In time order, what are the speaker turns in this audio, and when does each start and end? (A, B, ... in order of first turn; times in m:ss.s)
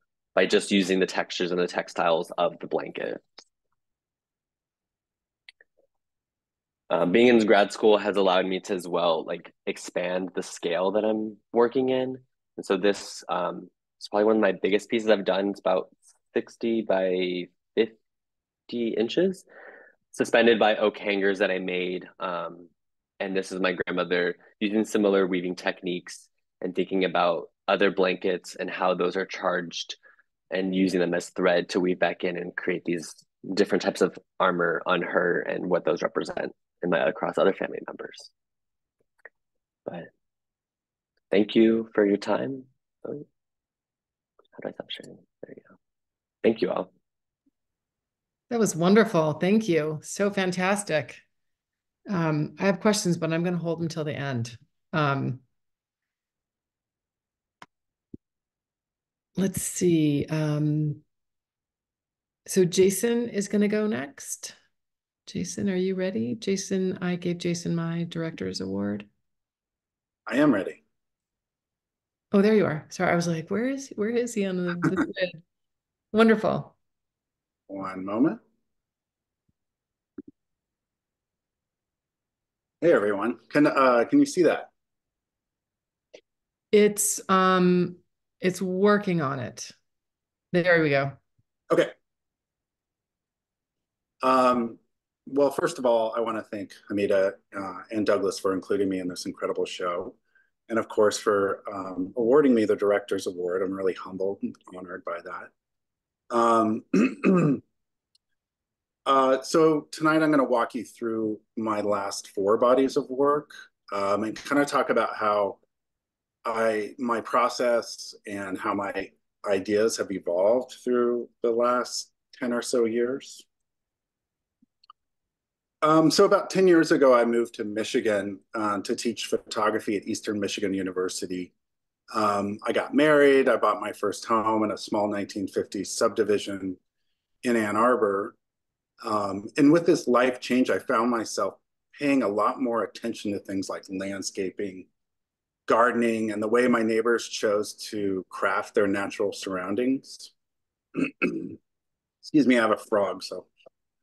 0:00.4-0:03.2 A
0:06.9-0:18.0 A
0:18.7-0:19.5 A
0:20.1-0:22.7 A
0:23.2-0:30.0 A
0:30.5-0:38.3 A
0:41.3-0:43.2 A
0:44.6-0:45.7 A
0:46.4-0:46.9 A
0:48.5-0:51.2 B
0:52.1-0:55.4 B
0:59.4-1:01.0 B
1:02.5-1:04.6 B
1:05.3-1:09.1 B
1:10.3-1:10.8 C
1:12.3-1:15.4 B
1:16.1-1:16.7 B
1:17.7-1:18.4 C
1:22.8-1:24.7 C
1:26.7-1:29.7 B
1:30.5-1:31.2 B
1:34.2-1:40.2 C
1:40.7-1:45.5 C
1:46.3-1:47.6 C
1:49.1-1:55.6 C
1:56.4-2:03.4 C
2:05.8-2:11.5 C
2:12.1-2:16.8 C
2:17.4-2:18.4 C
2:19.0-2:24.9 C
2:25.7-2:30.3 C
2:31.0-2:31.6 C
2:32.2-2:33.5 C